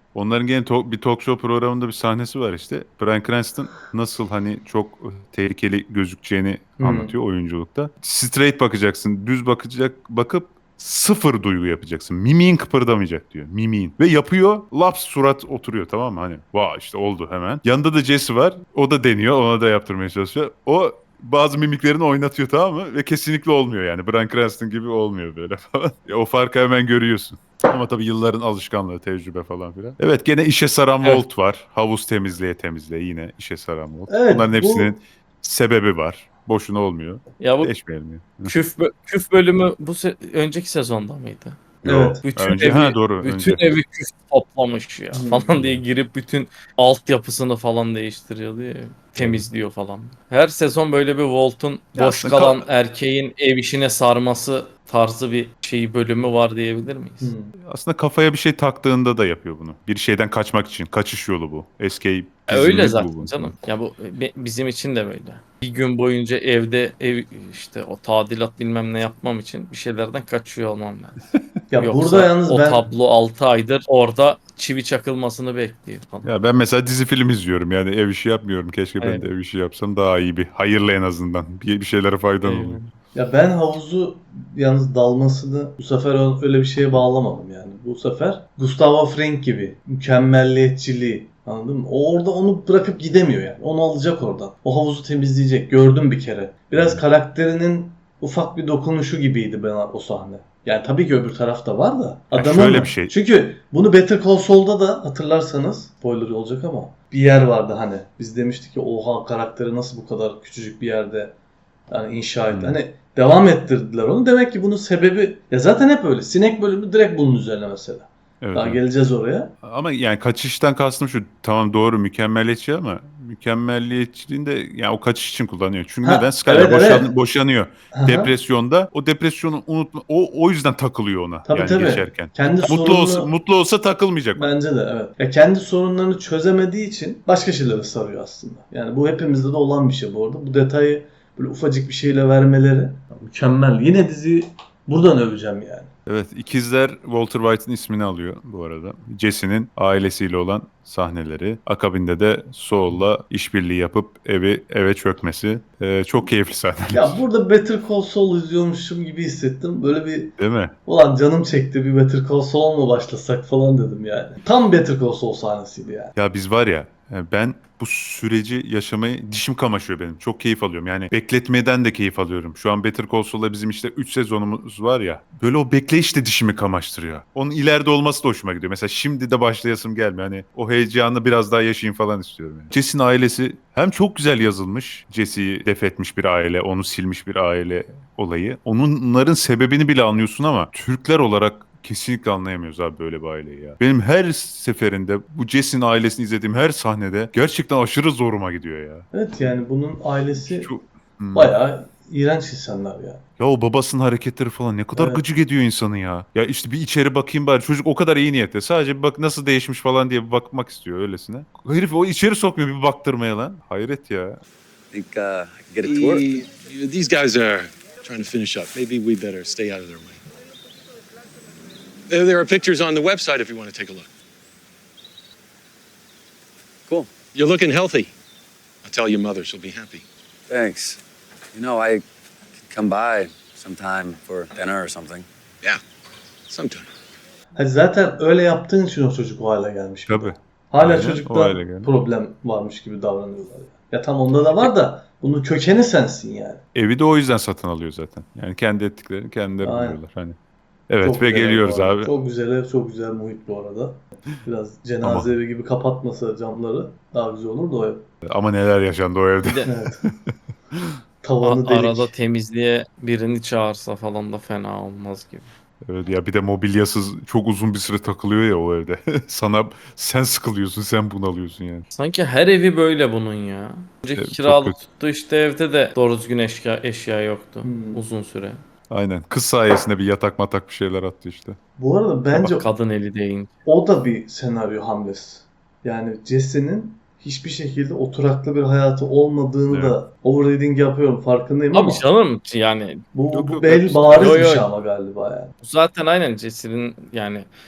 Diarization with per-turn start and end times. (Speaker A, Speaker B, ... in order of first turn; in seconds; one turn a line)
Speaker A: 0.1-38.5
Speaker B: 6.8-7.1
Speaker B: 34.1-34.9
Speaker C: 37.4-37.7
Speaker C: 38.5-41.6
Speaker B: 41.8-42.2
Speaker A: 41.8-43.6
Speaker C: 42.2-57.3
Speaker B: 45.1-45.5
Speaker A: 45.5-45.8
Speaker A: 49.2-49.4
Speaker A: 52.0-52.6
Speaker B: 57.2-57.5
Speaker A: 57.6-63.5
Speaker C: 62.5-71.2
Speaker B: 71.7-72.8
Speaker C: 71.8-76.3
Speaker A: 76.2-82.8
Speaker C: 79.0-79.2
Speaker C: 82.4-82.9
Speaker B: 83.1-111.3
Speaker A: 96.7-97.0
Speaker A: 102.3-103.1
Speaker B: 111.9-119.5
Speaker A: 112.5-112.8
Speaker A: 118.4-118.8
Speaker A: 119.6-134.5
Speaker B: 126.0-127.1
Speaker B: 127.9-128.3
Speaker B: 131.4-133.3
Speaker B: 134.4-145.9
Speaker A: 146.1-157.2
Speaker B: 156.9-166.1
Speaker A: 160.4-160.7
Speaker A: 166.1-199.0
Speaker B: 199.1-200.7
Speaker A: 200.4-201.6
Speaker B: 201.3-203.2
Speaker A: 203.4-214.4
Speaker B: 204.9-205.2
Speaker D: 214.9-216.2
Speaker E: 215.8-220.2
Speaker E: 222.1-224.1
Speaker E: 227.3-228.1
Speaker E: 228.8-230.0
Speaker D: 230.5-231.0
Speaker D: 231.5-232.0
Speaker D: 232.7-235.2
Speaker E: 236.5-236.9
Speaker B: 237.6-246.6
Speaker A: 240.1-241.9
Speaker A: 246.7-250.3
Speaker B: 249.6-250.0
Speaker A: 250.9-252.1
Speaker B: 251.0-258.1
Speaker A: 255.0-255.4
Speaker A: 258.2-260.9
Speaker C: 259.4-259.7
Speaker B: 259.6-260.0
Speaker B: 261.2-262.1
Speaker C: 261.4-265.5
Speaker A: 265.8-271.9
Speaker C: 271.9-278.6
Speaker A: 274.1-274.8
Speaker B: 277.6-278.0
Speaker A: 278.9-281.6
Speaker B: 281.8-282.5
Speaker A: 282.3-282.6
Speaker C: 282.4-283.5
Speaker B: 283.6-292.0
Speaker A: 289.7-290.0
Speaker C: 291.7-293.0
Speaker B: 293.1-295.5
Speaker A: 293.3-294.6
Speaker C: 294.1-294.7
Speaker C: 295.6-297.5